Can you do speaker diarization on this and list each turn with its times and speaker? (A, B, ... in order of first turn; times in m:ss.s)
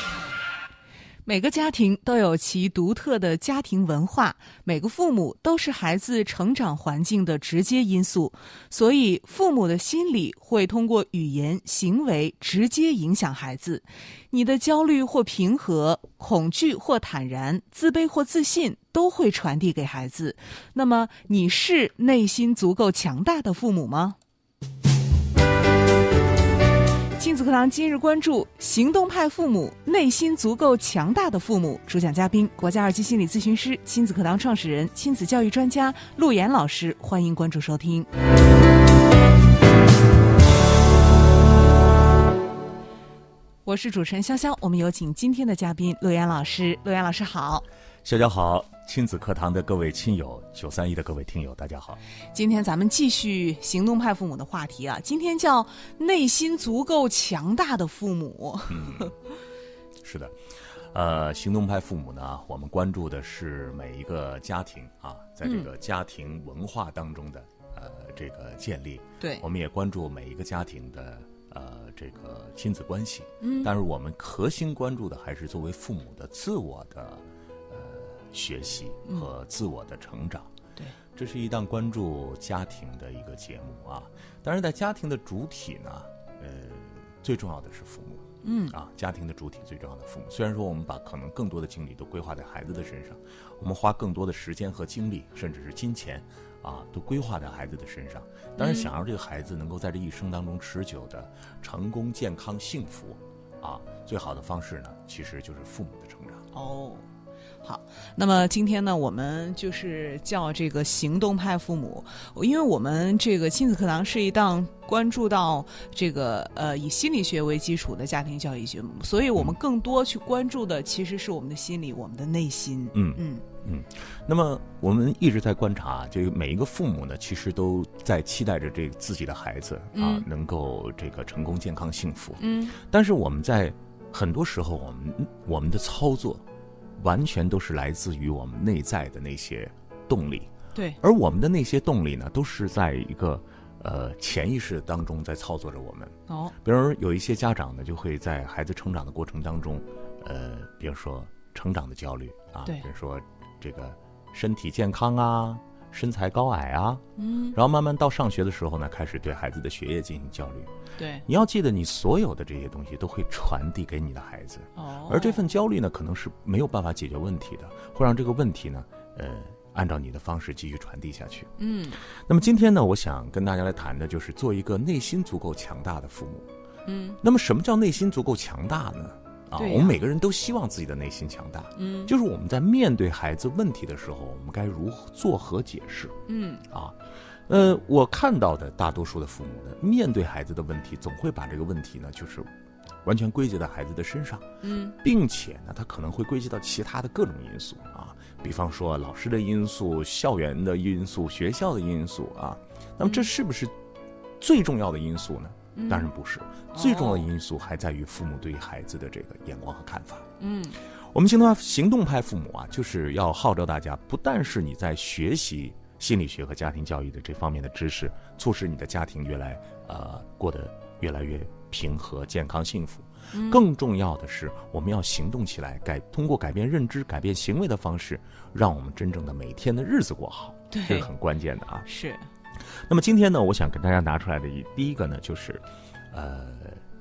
0:01.2-0:24.2 A
0:27.2-0:38.1 A
0:43.6-0:47.6 A
0:48.0-0:52.0 B
0:52.3-0:59.1 A
0:58.7-0:59.1 B
1:00.0-1:00.4 B
1:00.9-1:20.5 B
1:05.4-1:05.7 A
1:09.2-1:09.4 A
1:13.4-1:13.7 A
1:21.1-1:46.4 B
1:28.4-1:28.7 A
1:38.6-1:38.9 A
1:46.5-1:47.0 A
1:47.6-2:03.4 A
2:02.9-2:16.4 B
2:09.9-2:10.2 A
2:12.4-2:12.8 A
2:17.0-2:40.7 B
2:20.7-2:21.0 A
2:26.3-2:26.5 A
2:37.2-2:37.6 A
2:41.0-2:41.2 A
2:41.3-2:51.5 B
2:44.8-2:45.5 A
2:51.6-2:52.0 A
2:52.2-2:56.5 B
2:56.8-2:57.2 A
2:57.2-3:06.2 B
2:59.6-3:00.0 A
3:01.8-3:02.1 A
3:06.3-3:06.6 A
3:06.7-3:07.0 B
3:07.5-3:12.5 B
3:13.0-3:14.4 B
3:14.6-3:15.0 A
3:15.0-3:23.7 B
3:23.0-3:23.3 A
3:24.4-3:30.3 B
3:25.7-3:26.1 A
3:26.7-3:27.3 A
3:30.4-3:30.8 A
3:31.1-3:51.9 B
3:43.3-3:43.6 A
3:50.7-3:51.1 A
3:51.8-3:52.2 A
3:52.9-3:56.8 B